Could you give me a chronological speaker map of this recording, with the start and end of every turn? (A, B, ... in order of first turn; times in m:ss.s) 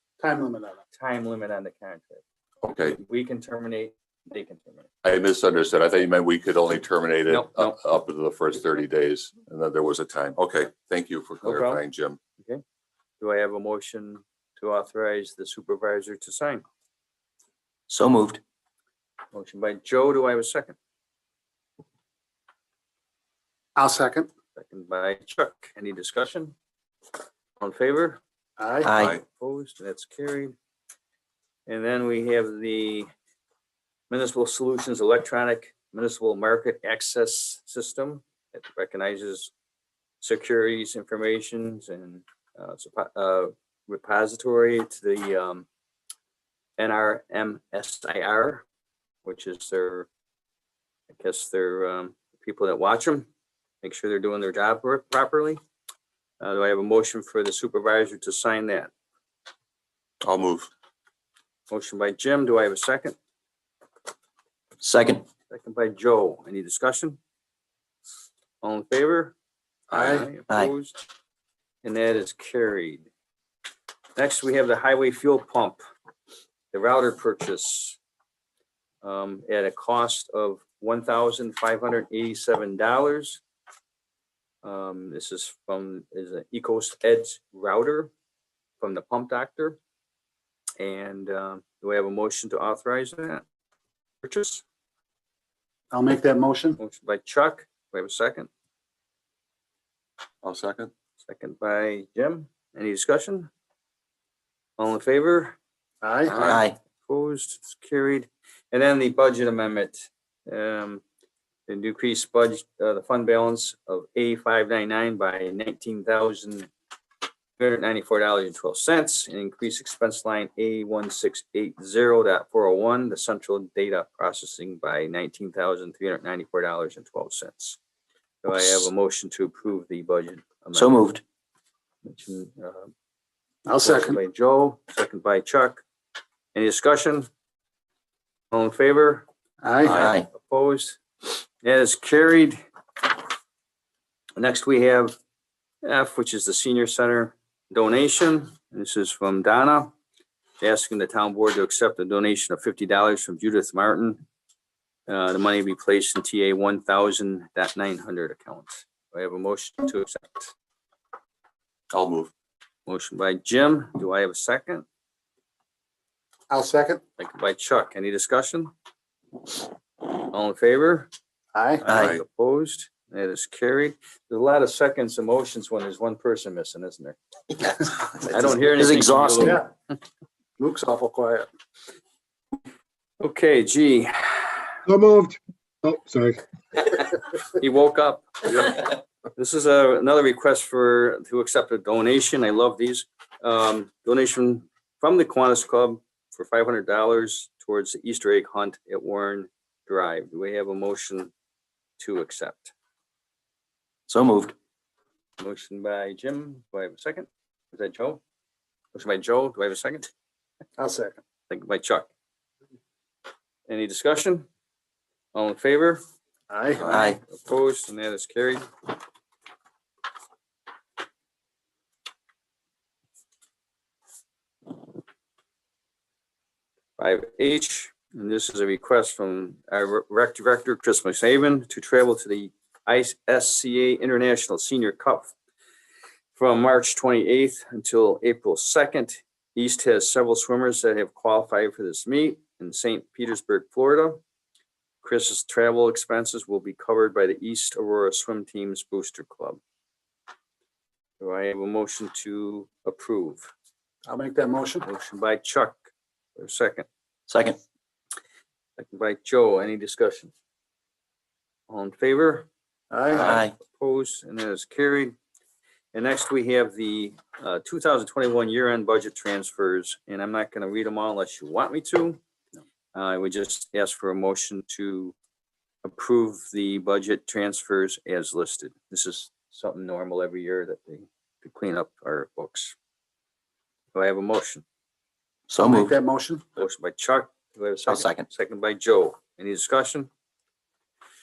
0:00.2-0:00.8 A
0:01.0-0:02.2 B
0:02.6-0:03.0 C
0:02.8-0:04.9 B
0:05.0-0:12.2 C
0:07.3-0:07.8 B
0:11.4-0:11.8 B
0:13.2-0:16.6 B
0:17.9-0:18.4 D
0:19.3-0:20.8 B
0:23.8-0:24.3 A
0:24.6-0:26.5 B
0:27.6-0:28.2 B
0:28.6-0:28.9 A
0:28.8-0:29.2 D
0:29.0-0:29.2 C
0:29.2-0:30.5 B
0:31.7-0:33.1 B
0:34.1-0:39.5 B
0:40.2-0:45.7 B
0:46.8-0:48.6 B
0:49.2-0:50.1 B
0:51.1-0:53.3 B
0:53.8-0:55.6 B
0:56.4-0:58.9 B
1:00.2-1:00.7 C
1:01.7-1:03.2 B
1:04.8-1:05.2 D
1:05.5-1:07.2 B
1:08.6-1:09.4 B
1:09.9-1:10.3 A
1:09.9-1:11.0 B
1:11.8-1:13.1 B
1:14.2-1:15.8 B
1:16.7-1:18.0 B
1:19.0-1:23.4 B
1:24.6-1:28.1 B
1:28.8-1:29.8 B
1:30.8-1:33.4 B
1:34.2-1:34.6 B
1:35.9-1:36.8 A
1:36.8-1:38.5 B
1:40.4-1:40.9 C
1:41.2-1:43.5 B
1:44.8-1:45.6 B
1:46.0-1:46.3 A
1:46.3-1:51.0 B
1:46.4-1:46.8 D
1:51.7-1:56.7 B
1:57.6-2:07.8 B
2:08.4-2:11.0 B
2:10.7-2:11.2 D
2:12.0-2:12.9 B
2:13.7-2:14.2 A
2:13.8-2:15.8 B
2:16.5-2:17.3 B
2:18.5-2:19.2 B
2:19.6-2:20.0 A
2:19.8-2:21.0 B
2:19.9-2:20.3 D
2:21.6-2:22.6 B
2:24.4-2:25.2 B
2:25.8-2:29.9 B
2:30.6-2:34.2 B
2:35.1-2:40.5 B
2:41.9-2:42.3 C
2:42.9-2:44.9 B
2:46.5-2:47.0 A
2:47.2-2:48.7 B
2:50.1-2:51.1 B
2:51.5-2:51.8 A
2:51.8-2:57.2 B
2:51.9-2:52.2 D
2:57.6-2:59.6 D
2:58.3-2:59.6 B
2:59.4-2:59.7 A
3:00.6-3:01.5 A
3:03.2-3:04.6 B
3:04.9-3:06.4 A
3:06.8-3:21.3 B
3:22.0-3:22.7 B
3:24.1-3:24.5 D
3:25.4-3:28.2 B
3:28.9-3:30.1 B
3:30.8-3:31.2 A
3:31.5-3:32.1 B
3:33.7-3:34.5 B
3:35.3-3:36.0 B
3:36.5-3:36.8 A
3:36.8-3:38.6 B
3:36.9-3:37.2 D
3:47.0-3:55.3 B
3:56.4-4:04.2 B
4:05.0-4:09.6 B
4:11.2-4:13.5 B
4:14.1-4:14.9 A
4:14.8-4:15.8 B
4:16.4-4:16.9 B
4:17.3-4:17.6 D
4:18.8-4:20.3 B
4:21.7-4:22.5 B
4:22.9-4:23.4 A
4:23.1-4:25.2 B
4:23.2-4:23.6 D
4:25.9-4:32.2 B
4:32.9-4:35.2 B
4:35.8-4:42.8 B
4:43.9-4:44.6 B
4:45.5-4:46.0 D
4:45.7-4:46.4 A
4:46.6-4:50.1 B
4:47.9-4:48.3 D